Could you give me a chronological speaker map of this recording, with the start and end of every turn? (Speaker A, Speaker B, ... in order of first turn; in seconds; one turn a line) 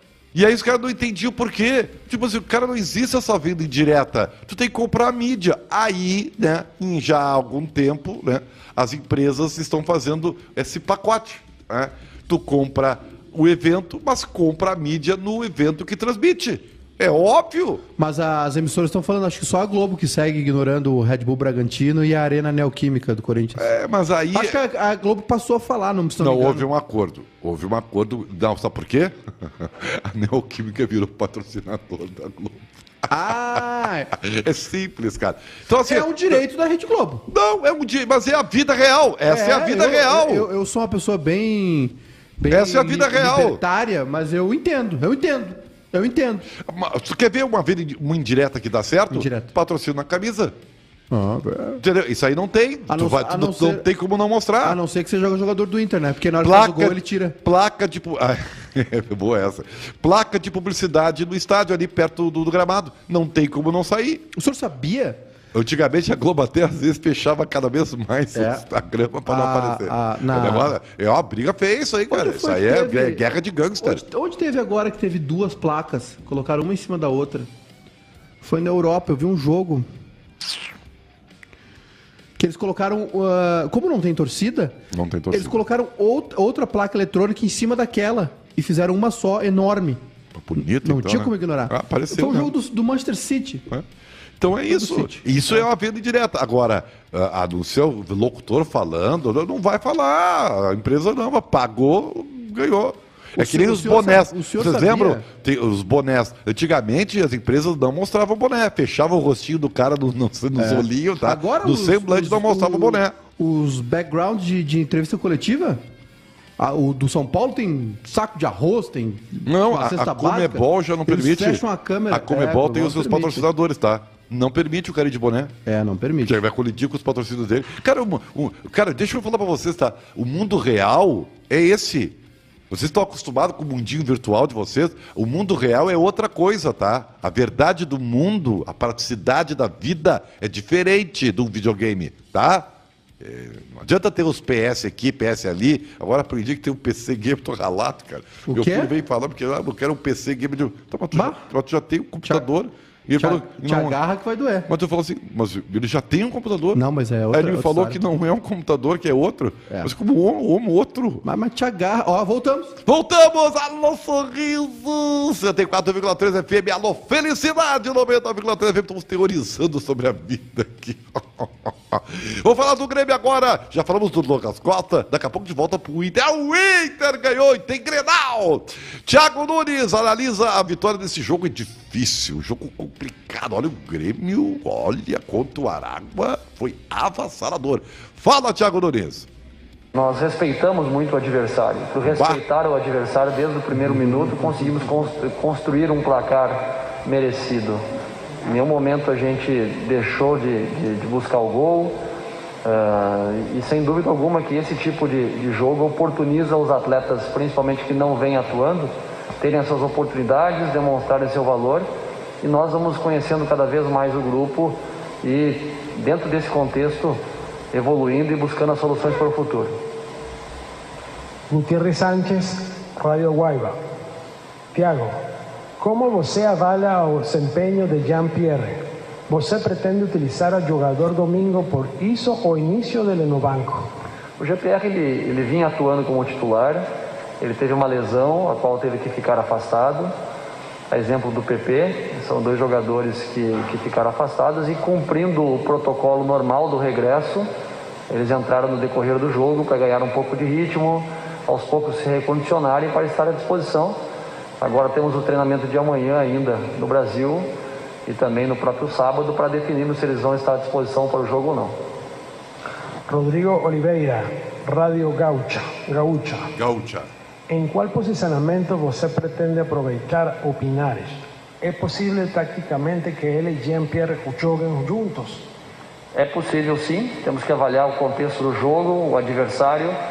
Speaker A: 0.3-17.8
Speaker B: 18.0-23.7
Speaker A: 23.6-24.6
Speaker B: 24.3-26.7
Speaker A: 26.2-32.6
Speaker B: 33.1-34.1
Speaker A: 34.1-36.4
Speaker B: 35.8-37.2
Speaker A: 37.3-40.5
Speaker B: 39.3-46.5
Speaker A: 42.5-43.6
Speaker A: 46.6-50.5
Speaker B: 49.1-49.5
Speaker B: 51.1-51.8
Speaker A: 51.8-54.8
Speaker B: 52.9-53.9
Speaker B: 54.6-57.4
Speaker A: 56.4-64.3
Speaker B: 64.3-65.2
Speaker A: 65.5-74.0
Speaker B: 68.3-68.6
Speaker B: 69.2-70.7
Speaker B: 72.1-73.2
Speaker B: 73.8-77.5
Speaker B: 78.4-79.8
Speaker B: 82.4-84.8
Speaker A: 84.9-85.6
Speaker B: 85.3-90.0
Speaker A: 90.3-92.5
Speaker B: 90.6-93.7
Speaker A: 94.4-113.2
Speaker B: 94.7-95.6
Speaker B: 103.4-105.2
Speaker B: 110.5-115.8
Speaker B: 116.6-123.5
Speaker A: 119.5-125.5
Speaker B: 125.7-126.4
Speaker A: 126.2-132.2
Speaker A: 132.7-154.0
Speaker B: 148.4-148.9
Speaker B: 151.1-151.4
Speaker B: 153.2-154.7
Speaker A: 154.7-161.2
Speaker B: 156.7-158.0
Speaker B: 161.2-162.8
Speaker A: 162.8-189.3
Speaker C: 189.9-197.8
Speaker A: 192.1-192.4
Speaker C: 198.4-201.9
Speaker C: 202.6-211.9
Speaker C: 212.4-217.2
Speaker C: 217.7-219.7
Speaker D: 221.5-223.8
Speaker D: 224.7-225.2
Speaker D: 225.8-233.9
Speaker C: 234.4-236.9
Speaker C: 237.4-240.1
Speaker C: 240.9-247.5
Speaker C: 248.1-254.0
Speaker C: 254.6-257.5
Speaker C: 258.1-261.8
Speaker D: 263.1-266.5
Speaker A: 266.5-267.1
Speaker D: 267.5-275.4
Speaker C: 276.1-280.0